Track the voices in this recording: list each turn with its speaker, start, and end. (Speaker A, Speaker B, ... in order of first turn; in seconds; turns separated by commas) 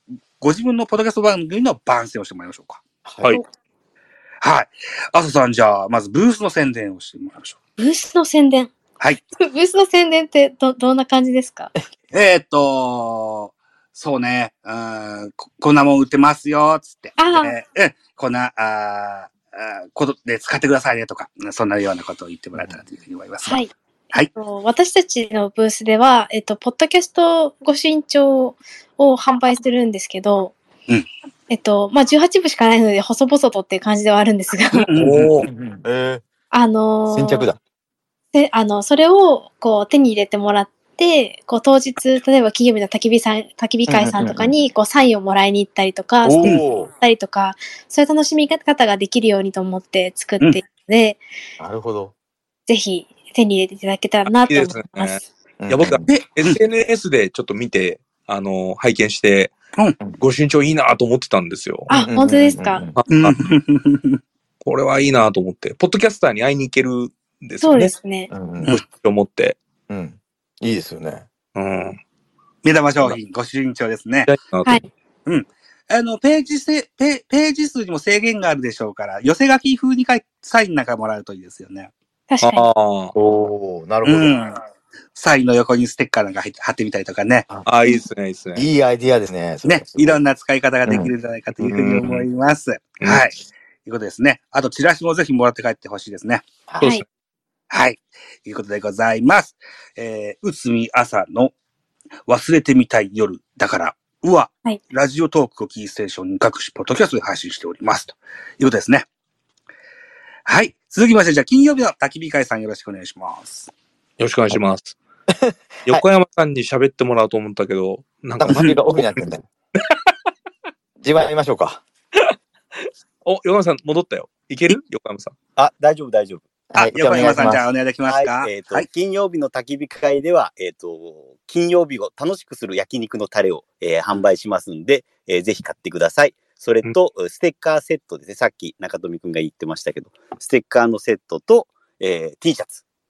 Speaker A: 0.4-2.8, Speaker B: 3.0-3.4, Speaker A: 4.4-7.6, Speaker C: 7.8-8.7, Speaker C: 9.4-11.7, Speaker A: 12.1-24.3, Speaker C: 17.2-17.6, Speaker C: 23.4-23.7, Speaker C: 24.3-30.6, Speaker C: 31.5-34.9, Speaker A: 34.7-35.5, Speaker D: 34.9-35.5, Speaker B: 35.5-36.2, Speaker C: 36.5-37.5, Speaker B: 37.1-37.6, Speaker C: 38.3-51.2, Speaker B: 43.9-44.5, Speaker B: 46.2-46.9, Speaker B: 51.6-52.1, Speaker C: 52.7-55.3, Speaker D: 54.3-59.5, Speaker B: 55.6-56.1, Speaker A: 56.1-56.6, Speaker D: 60.2-61.9, Speaker C: 61.9-62.8, Speaker B: 61.9-63.0, Speaker D: 63.0-63.4, Speaker A: 63.1-64.2, Speaker D: 64.6-67.9, Speaker C: 67.6-68.3, Speaker B: 68.3-68.8, Speaker D: 68.7-69.6, Speaker B: 69.9-71.3, Speaker D: 71.5-72.0, Speaker A: 72.6-74.3, Speaker D: 74.3-74.9, Speaker A: 75.3-81.9, Speaker C: 82.3-82.7, Speaker D: 82.4-83.1, Speaker B: 83.1-84.3, Speaker A: 84.0-84.6, Speaker A: 85.2-87.5, Speaker D: 87.7-88.7, Speaker B: 88.5-90.2, Speaker A: 89.7-96.5, Speaker B: 90.9-91.1, Speaker D: 91.6-92.3, Speaker D: 93.0-93.3, Speaker D: 96.8-97.0, Speaker A: 97.7-101.5, Speaker A: 102.3-109.1, Speaker A: 110.5-113.7, Speaker D: 114.2-115.0, Speaker B: 115.3-116.0, Speaker D: 115.9-118.7, Speaker B: 118.4-119.5, Speaker A: 118.5-118.8, Speaker B: 121.0-121.8, Speaker D: 123.2-125.3, Speaker E: 125.6-126.5, Speaker B: 126.7-127.7, Speaker A: 126.8-128.9, Speaker E: 127.1-127.4, Speaker E: 128.1-142.8